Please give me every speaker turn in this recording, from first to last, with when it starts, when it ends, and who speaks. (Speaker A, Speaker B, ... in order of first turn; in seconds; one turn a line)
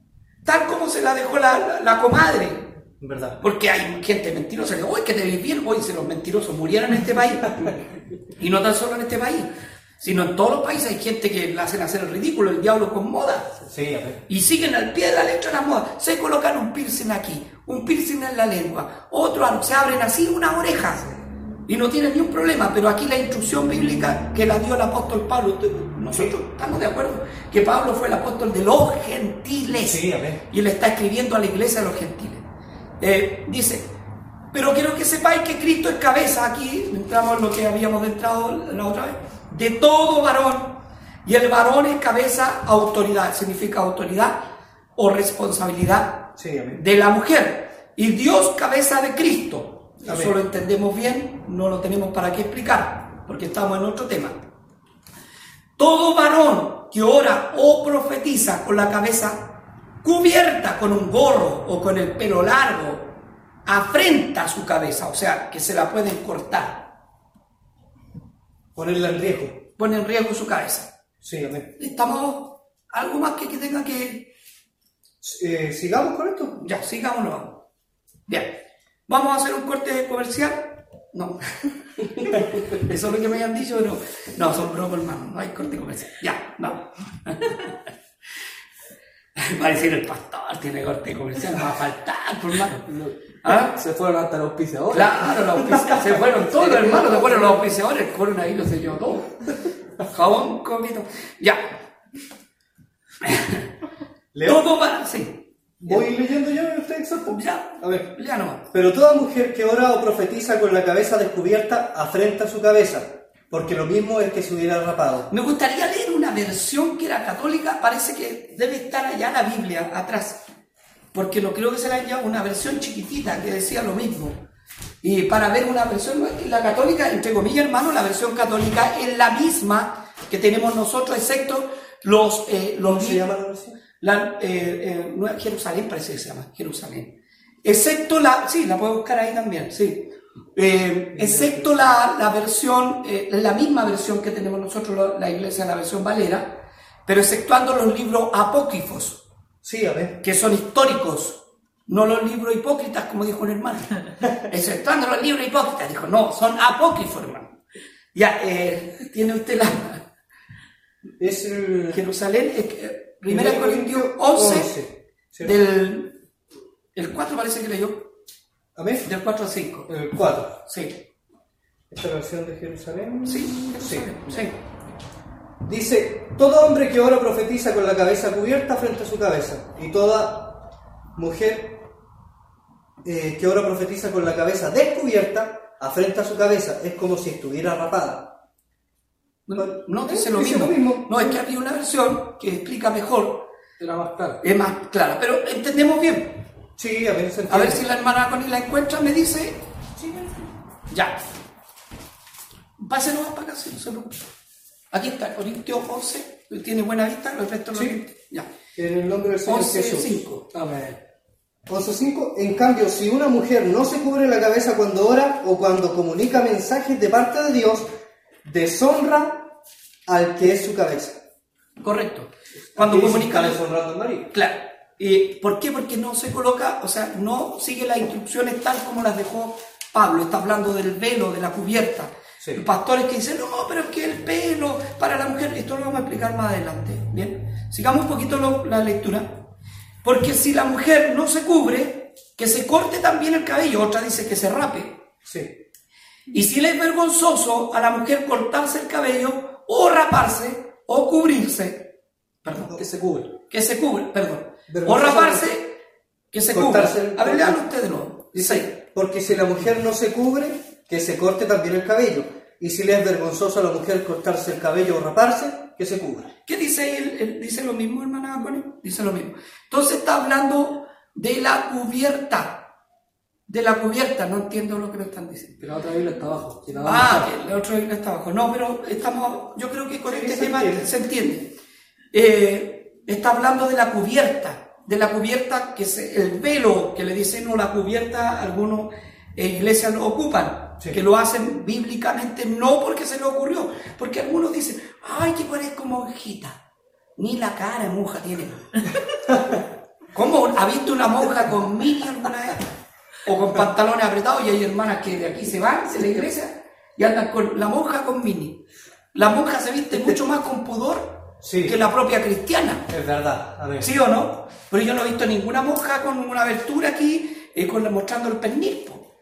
Speaker A: 0.5-2.7
Speaker B: 3.0-3.4
Speaker A: 3.4-7.8
Speaker A: 8.4-13.6
Speaker B: 13.7-14.2
Speaker A: 14.3-21.1
Speaker A: 21.7-32.4
Speaker B: 29.7-30.4
Speaker A: 33.0-33.9
Speaker A: 34.5-44.4
Speaker A: 45.0-54.4
Speaker B: 46.4-46.8
Speaker B: 50.1-50.3
Speaker A: 55.8-63.1
Speaker A: 63.7-66.9
Speaker B: 68.8-69.6
Speaker A: 69.8-70.9
Speaker B: 71.2-71.7
Speaker A: 71.8-74.3
Speaker B: 75.2-76.6
Speaker A: 76.6-77.6
Speaker A: 78.3-81.7
Speaker A: 82.3-87.8
Speaker A: 89.4-92.9
Speaker C: 92.8-97.6
Speaker A: 93.4-93.8
Speaker A: 94.9-99.4
Speaker A: 100.0-101.7
Speaker A: 103.2-103.7
Speaker B: 104.3-104.6
Speaker A: 104.4-106.1
Speaker B: 105.8-108.1
Speaker A: 107.3-108.6
Speaker B: 108.7-115.3
Speaker A: 115.3-120.4
Speaker A: 121.1-124.4
Speaker A: 125.0-133.3
Speaker B: 132.9-133.8
Speaker A: 134.0-149.2
Speaker B: 149.6-150.2
Speaker A: 150.2-157.6
Speaker A: 158.1-160.1
Speaker B: 161.2-162.0
Speaker A: 161.9-164.8
Speaker B: 163.3-165.5
Speaker A: 165.4-166.2
Speaker A: 166.9-168.1
Speaker B: 168.8-169.1
Speaker A: 169.0-169.9
Speaker B: 169.9-170.6
Speaker A: 170.7-171.0
Speaker B: 171.9-174.4
Speaker A: 173.2-174.6
Speaker B: 175.6-180.6
Speaker B: 181.2-181.9
Speaker B: 183.0-188.3
Speaker A: 189.5-193.5
Speaker B: 189.6-191.3
Speaker C: 193.8-194.4
Speaker A: 194.4-196.4
Speaker B: 196.8-197.9
Speaker A: 197.5-199.6
Speaker B: 200.0-200.4
Speaker A: 200.9-201.2
Speaker A: 202.8-204.3
Speaker A: 204.9-208.5
Speaker B: 207.7-208.0
Speaker B: 208.8-210.1
Speaker A: 209.5-210.6
Speaker B: 211.7-217.9
Speaker B: 218.4-219.5
Speaker B: 220.1-221.2
Speaker A: 221.8-223.6
Speaker B: 222.7-224.3
Speaker A: 224.3-239.4
Speaker A: 240.0-245.0
Speaker B: 245.2-245.5
Speaker A: 246.3-252.8
Speaker B: 252.6-253.3
Speaker A: 253.5-255.8
Speaker B: 254.7-255.5
Speaker A: 256.3-258.7
Speaker B: 256.5-257.6
Speaker B: 258.3-266.3
Speaker A: 266.5-272.7
Speaker A: 273.5-275.6
Speaker C: 275.6-277.3
Speaker A: 276.8-281.5
Speaker B: 280.1-280.9
Speaker A: 282.1-296.6
Speaker A: 297.2-298.8
Speaker B: 299.3-299.6
Speaker A: 300.1-302.7
Speaker A: 303.2-308.6
Speaker A: 309.1-312.9
Speaker B: 311.4-311.8
Speaker B: 312.9-313.9
Speaker A: 313.8-319.1